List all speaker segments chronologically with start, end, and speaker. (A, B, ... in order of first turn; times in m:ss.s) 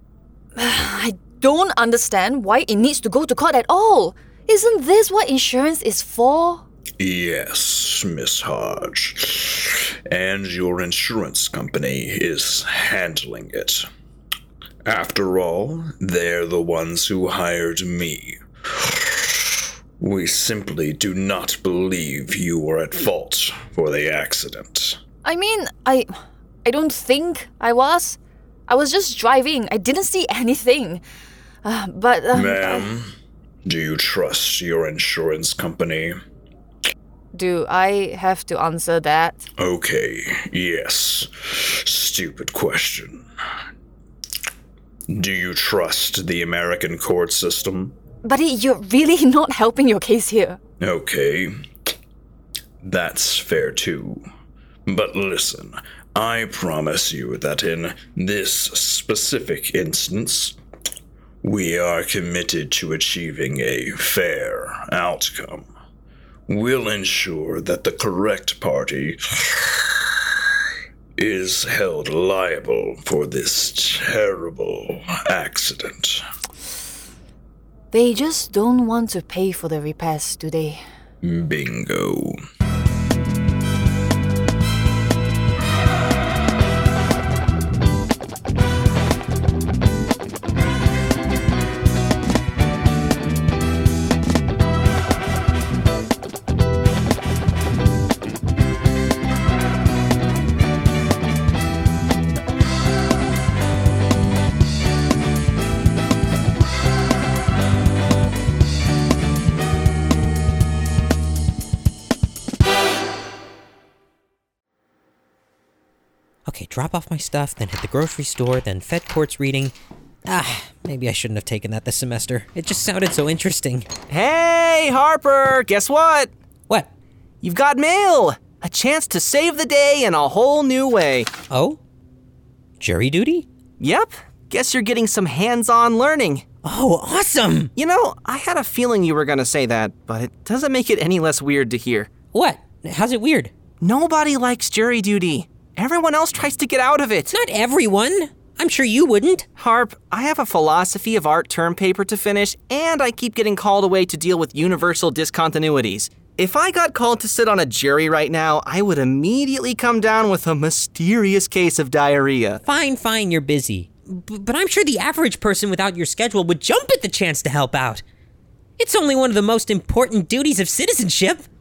0:00.6-0:06.6 A
0:07.0-0:13.8 B
0:14.8-0:25.0 B
0:25.2-0:31.0 A
0:31.6-0:32.9 A
0:32.3-0:33.1 B
0:33.6-0:36.2 B
0:37.3-0:39.4 A
0:39.6-0:43.2 B
0:45.1-0:47.9 B
0:48.2-0:50.6 A
0:50.8-0:51.5 B
0:52.8-0:54.2 B
0:54.9-1:00.6 B
1:01.4-1:05.7 B
1:06.5-1:10.0 B
1:11.2-1:16.2 B
1:17.9-1:20.8 A
1:21.2-1:22.4 B
1:56.5-1:59.7 C
2:00.2-2:03.9 C
2:04.1-2:06.3 D
2:07.4-2:11.3 D
2:11.5-2:11.8 C
2:12.8-2:13.4 C
2:13.8-2:16.4 D
2:16.6-2:17.7 C
2:17.8-2:22.1 D
2:22.3-2:23.5 C
2:23.8-2:27.3 D
2:27.3-2:29.4 C
2:29.6-2:42.6 D
2:42.6-2:48.0 C
2:48.8-2:51.4 C